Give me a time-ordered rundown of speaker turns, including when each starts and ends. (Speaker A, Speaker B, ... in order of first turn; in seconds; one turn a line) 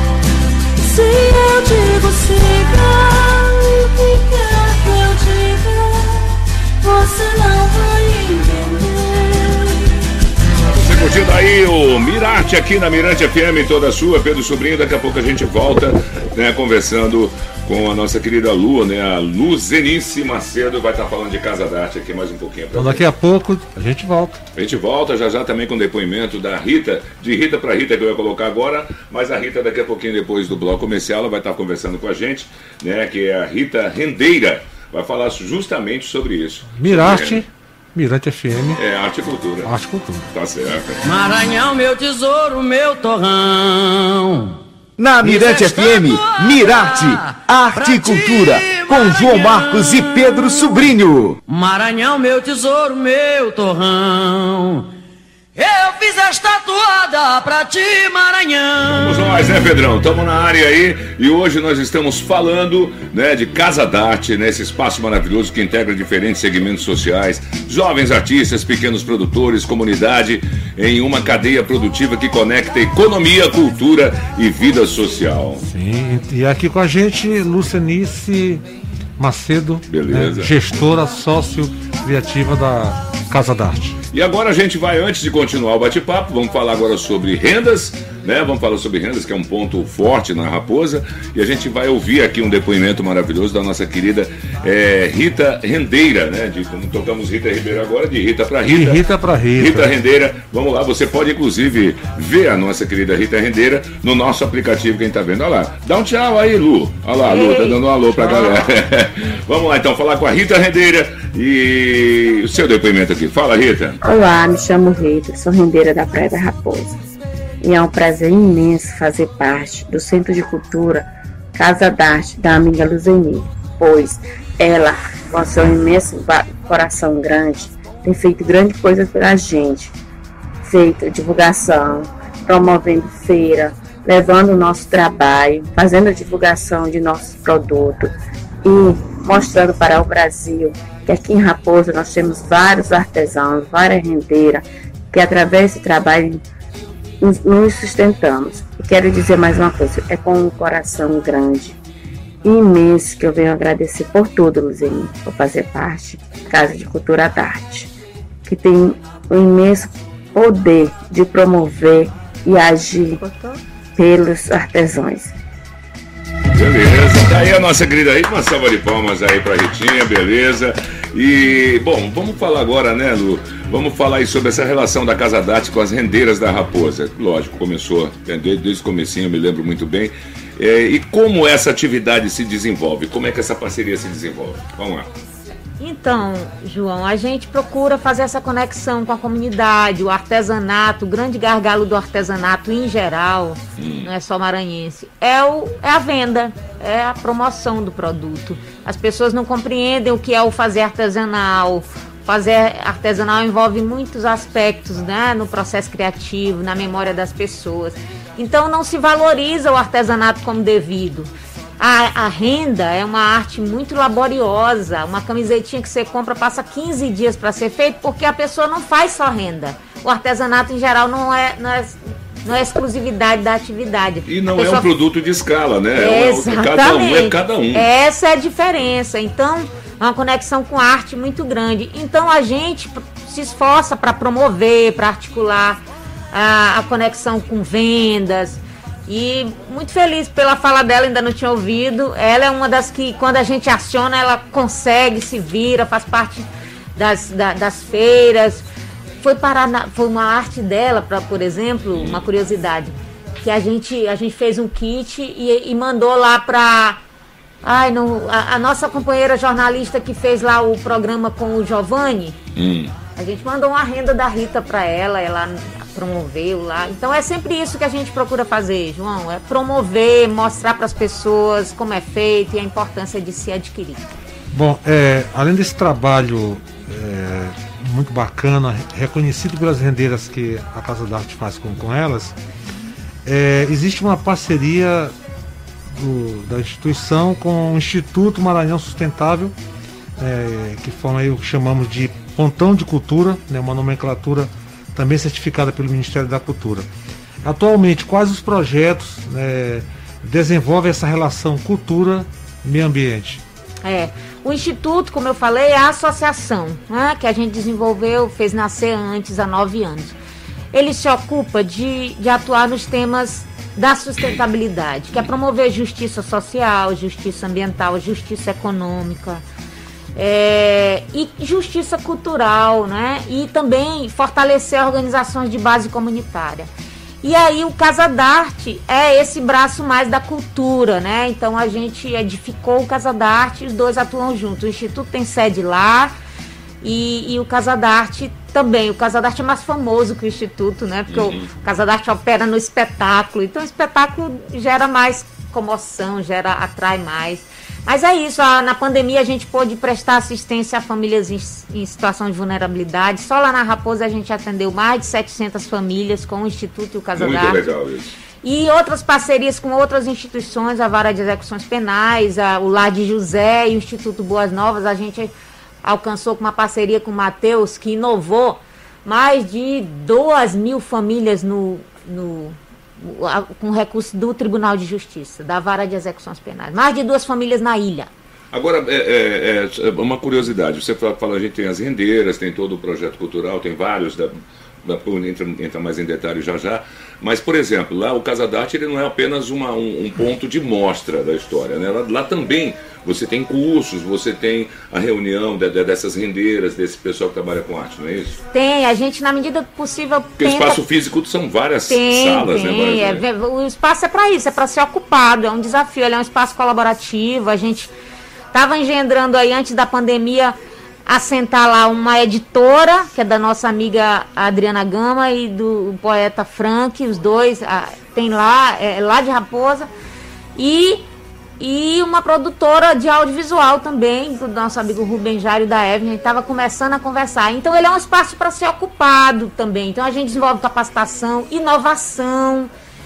Speaker A: 0.8-10.1
Speaker B: 10.7-23.1
Speaker C: 22.7-24.4
Speaker B: 24.6-37.4
Speaker C: 36.8-38.8
Speaker B: 38.8-39.7
Speaker C: 39.6-40.3
Speaker B: 40.3-41.0
Speaker A: 41.0-44.6
Speaker D: 45.0-51.4
Speaker A: 45.2-50.9
Speaker A: 51.5-54.9
Speaker A: 55.6-59.5
Speaker B: 58.9-75.6
Speaker C: 75.6-78.6
Speaker C: 79.2-84.0
Speaker B: 79.9-80.5
Speaker B: 84.1-114.0
Speaker C: 98.7-99.9
Speaker E: 107.2-107.8
Speaker F: 114.0-117.0
Speaker F: 117.6-129.9
Speaker F: 130.6-146.4
Speaker F: 147.2-151.8
Speaker F: 152.4-157.9
Speaker F: 158.5-163.2
Speaker E: 163.2-163.6
Speaker F: 164.0-165.3
Speaker B: 166.5-185.1
Speaker E: 185.8-224.9
Speaker B: 193.8-194.1
Speaker B: 224.3-227.9
Speaker E: 226.0-248.7
Speaker E: 249.2-257.0
Speaker B: 252.0-252.2
Speaker E: 257.6-262.4
Speaker B: 262.6-262.9
Speaker E: 263.2-274.1
Speaker C: 274.5-282.4
Speaker C: 283.2-285.1
Speaker C: 285.9-289.6
Speaker C: 290.2-296.9
Speaker C: 297.4-303.4
Speaker E: 303.8-310.1
Speaker E: 310.7-319.4
Speaker E: 320.2-326.7
Speaker E: 327.2-336.1
Speaker E: 336.8-357.7
Speaker B: 341.1-341.5
Speaker B: 357.2-358.1
Speaker E: 358.4-365.3
Speaker E: 365.8-378.1
Speaker B: 378.5-398.4
Speaker E: 398.5-400.8
Speaker B: 400.4-403.2
Speaker E: 401.9-407.9
Speaker E: 408.5-419.9
Speaker E: 420.6-421.0
Speaker E: 421.6-432.7